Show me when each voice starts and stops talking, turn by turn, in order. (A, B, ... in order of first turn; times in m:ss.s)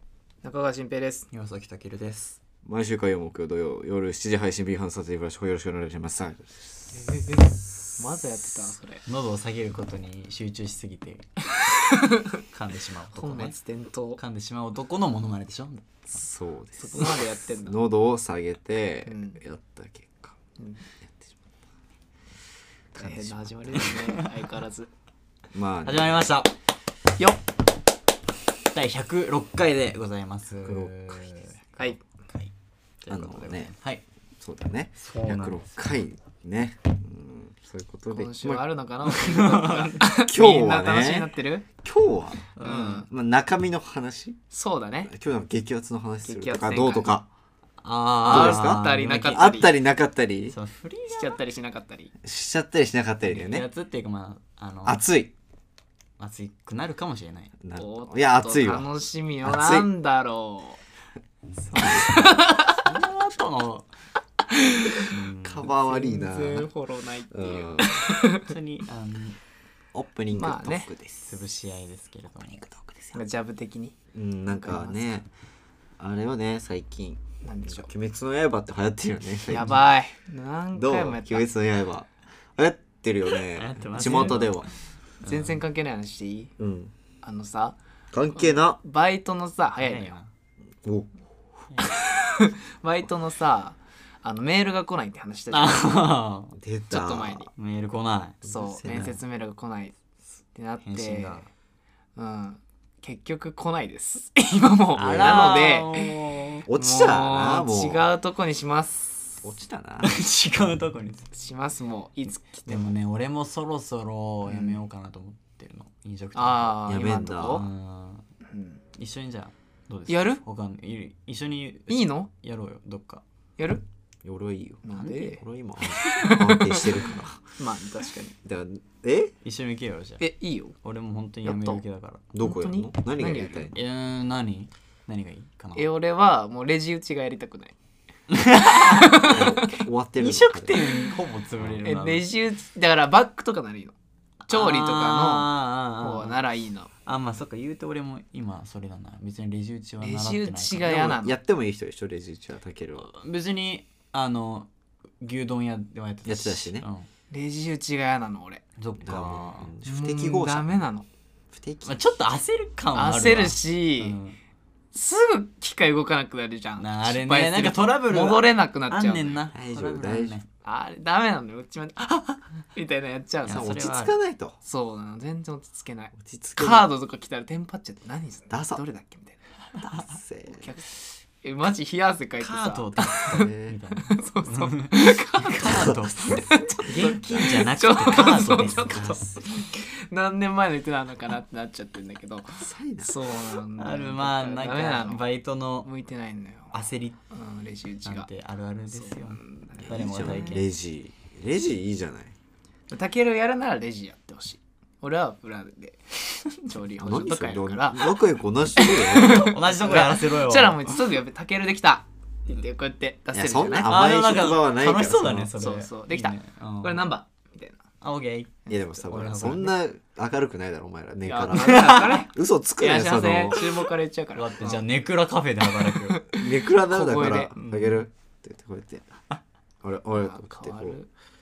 0:00.4-0:01.3 A
0:01.3-0:02.4 B
0:02.6-0:07.0 C
0:07.0-0:09.0 A
0:07.7-0:08.0 C
0:09.0-0:11.3 B
0:11.7-0:12.4 A
0:12.5-0:13.6 B
0:13.2-0:14.2 A
0:14.2-0:16.1 B
0:16.1-0:20.4 C
0:16.8-0:17.8 A
0:19.0-0:19.4 A
0:20.6-0:20.8 A
0:21.0-0:21.4 C
0:22.9-0:23.7 C
0:22.9-0:24.9 A
0:23.7-0:24.2 B
0:25.5-0:26.3 C
0:25.8-0:26.5 B
0:28.7-0:34.0 B
0:30.6-0:31.2 C
0:33.1-0:33.7 C
0:34.4-0:38.6 C
0:35.0-0:35.8 B
0:38.1-0:41.7 A
0:39.0-0:40.1 B
0:40.2-0:42.5 C
0:42.6-0:43.1 B
0:42.6-0:43.1 A
0:43.0-0:44.4 C
0:44.5-0:45.1 A
0:45.0-0:47.3 C
0:46.2-0:47.2 A
0:47.8-0:49.4 B
0:48.2-0:49.7 A
0:48.2-0:50.6 C
0:50.5-0:51.4 B
0:51.1-0:52.1 A
0:52.2-0:53.6 C
0:53.2-0:55.0 B
0:54.8-0:55.3 C
0:56.2-0:57.5 B
0:57.6-0:58.9 C
0:57.8-1:00.8 A
0:59.4-0:59.9 C
1:01.7-1:02.8 A
1:01.7-1:02.4 C
1:02.6-1:03.9 B
1:04.5-1:05.0 A
1:05.1-1:05.7 B
1:05.4-1:06.7 C
1:05.7-1:08.5 A
1:07.3-1:08.1 C
1:08.3-1:09.4 B
1:09.9-1:11.4 C
1:10.3-1:10.9 A
1:11.3-1:12.6 B
1:12.4-1:13.2 C
1:13.1-1:14.0 A
1:14.1-1:15.3 C
1:14.5-1:15.0 A
1:16.0-1:19.8 C
1:17.4-1:17.9 A
1:19.5-1:21.4 A
1:20.7-1:24.7 C
1:23.6-1:24.7 B
1:24.0-1:24.4 A
1:25.2-1:25.6 B
1:25.2-1:26.5 A
1:26.6-1:26.9 C
1:27.2-1:27.8 A
1:28.1-1:28.8 C
1:28.3-1:30.2 A
1:29.8-1:30.3 B
1:30.8-1:31.6 C
1:31.8-1:36.1 A
1:35.5-1:36.6 B
1:36.6-1:37.5 C
1:36.9-1:37.5 A
1:37.6-1:38.4 B
1:38.4-1:39.2 C
1:38.4-1:39.9 A
1:38.9-1:39.2 B
1:40.5-1:41.4 A
1:40.8-1:41.5 B
1:42.2-1:46.2 A
1:45.0-1:45.4 C
1:45.0-1:46.6 B
1:46.7-1:48.0 C
1:46.7-1:49.5 A
1:49.4-1:50.1 C
1:50.0-1:51.3 B
1:51.3-1:52.8 A
1:52.6-1:56.8 B
1:54.4-1:54.8 A
1:56.3-1:57.7 A
1:56.8-1:57.6 C
1:57.3-1:58.2 B
1:58.5-1:58.8 A
1:59.0-2:03.2 B
2:00.1-2:00.4 A
2:01.9-2:02.3 A
2:03.6-2:03.8 A
2:04.2-2:07.4 C
2:04.8-2:05.4 A
2:04.9-2:05.3 B
2:06.0-2:08.4 A
2:08.4-2:09.3 C
2:09.4-2:10.2 B
2:10.2-2:10.8 A
2:10.8-2:12.2 B
2:11.4-2:11.8 A
2:12.3-2:13.8 C
2:12.4-2:13.7 A
2:13.7-2:15.9 B
2:15.7-2:17.7 A
2:18.3-2:19.6 B
2:18.6-2:19.5 A
2:19.3-2:20.8 C
2:20.2-2:22.3 B
2:21.8-2:23.9 A
2:24.4-2:26.4 B
2:24.5-2:26.9 A
2:27.0-2:31.2 B
2:30.0-2:31.4 A
2:30.8-2:33.1 C
2:33.0-2:34.7 B
2:35.2-2:37.1 B
2:36.2-2:36.8 C
2:37.3-2:38.6 A
2:38.8-2:39.7 B
2:39.0-2:40.8 C
2:39.8-2:41.0 A
2:41.5-2:42.0 C
2:41.8-2:44.4 B
2:42.9-2:44.2 A
2:44.9-2:49.4 A
2:46.8-2:50.5 B
2:49.5-2:50.4 C
2:50.6-2:53.7 A
2:53.4-2:54.1 B
2:53.4-2:54.6 C
2:54.6-2:59.4 A
2:56.2-2:56.9 C
2:58.5-2:58.8 C
2:59.8-3:00.7 C
3:00.5-3:03.2 A
3:02.4-3:09.2 B
3:03.2-3:03.8 C
3:04.0-3:15.2 A
3:06.9-3:09.4 C
3:12.6-3:13.3 C
3:13.8-3:15.9 B
3:15.8-3:16.8 A
3:16.7-3:17.2 B
3:17.3-3:18.3 A
3:18.0-3:20.7 B
3:18.9-3:20.5 A
3:19.8-3:22.3 C
3:22.9-3:28.2 A
3:27.0-3:29.5 C
3:28.8-3:33.9 A
3:29.3-3:30.9 B
3:33.3-3:35.5 C
3:33.8-3:37.1 B
3:35.6-3:37.8 A
3:38.0-3:39.7 B
3:38.7-3:38.9 A
3:38.7-3:43.7 C
3:41.2-3:44.9 A
3:41.5-3:42.3 B
3:44.3-3:46.2 B
3:45.6-3:47.5 A
3:46.3-3:49.0 C
3:47.5-3:48.0 B
3:49.8-3:51.0 C
3:50.2-3:51.1 A